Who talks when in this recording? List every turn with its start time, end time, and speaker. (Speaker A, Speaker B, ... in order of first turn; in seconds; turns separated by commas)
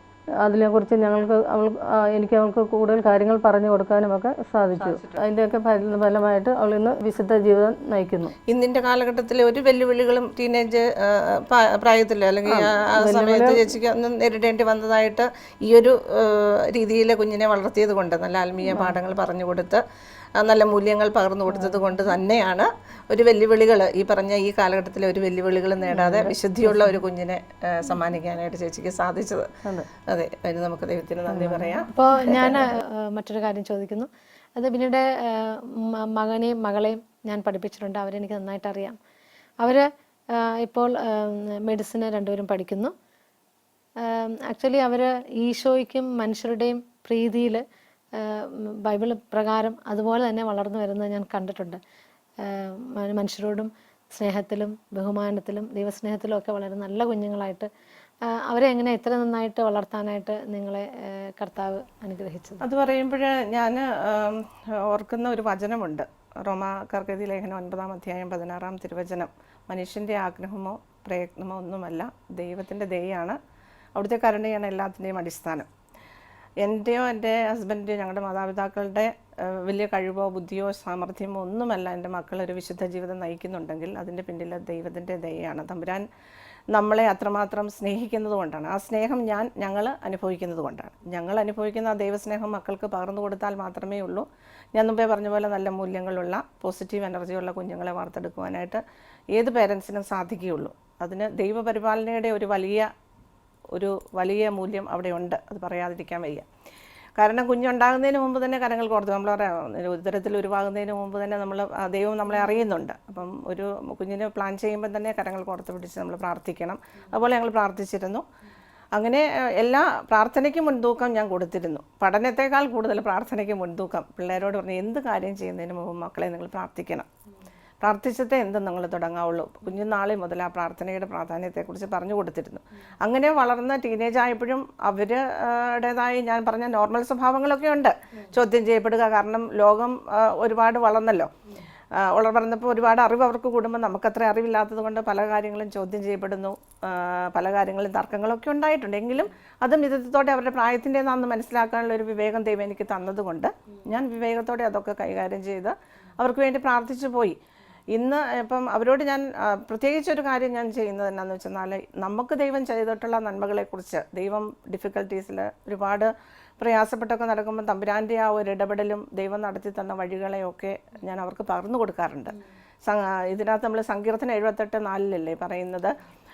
Speaker A: 0.4-8.3, Speaker B: 4.7-5.2, Speaker B: 8.5-19.8, Speaker A: 12.5-13.7, Speaker A: 18.7-18.9, Speaker B: 20.4-29.5, Speaker A: 21.5-22.0, Speaker A: 25.9-26.9, Speaker B: 30.1-32.6, Speaker A: 31.3-31.8, Speaker C: 31.9-39.0, Speaker C: 39.6-42.9, Speaker C: 44.0-47.6, Speaker C: 48.1-51.8, Speaker C: 52.4-57.7, Speaker C: 58.2-62.6, Speaker B: 62.6-73.4, Speaker B: 74.0-75.7, Speaker B: 76.6-86.0, Speaker B: 86.7-102.9, Speaker B: 103.7-106.5, Speaker B: 107.2-118.2, Speaker B: 118.9-127.1, Speaker B: 127.8-141.3, Speaker B: 141.9-157.4, Speaker B: 157.9-175.9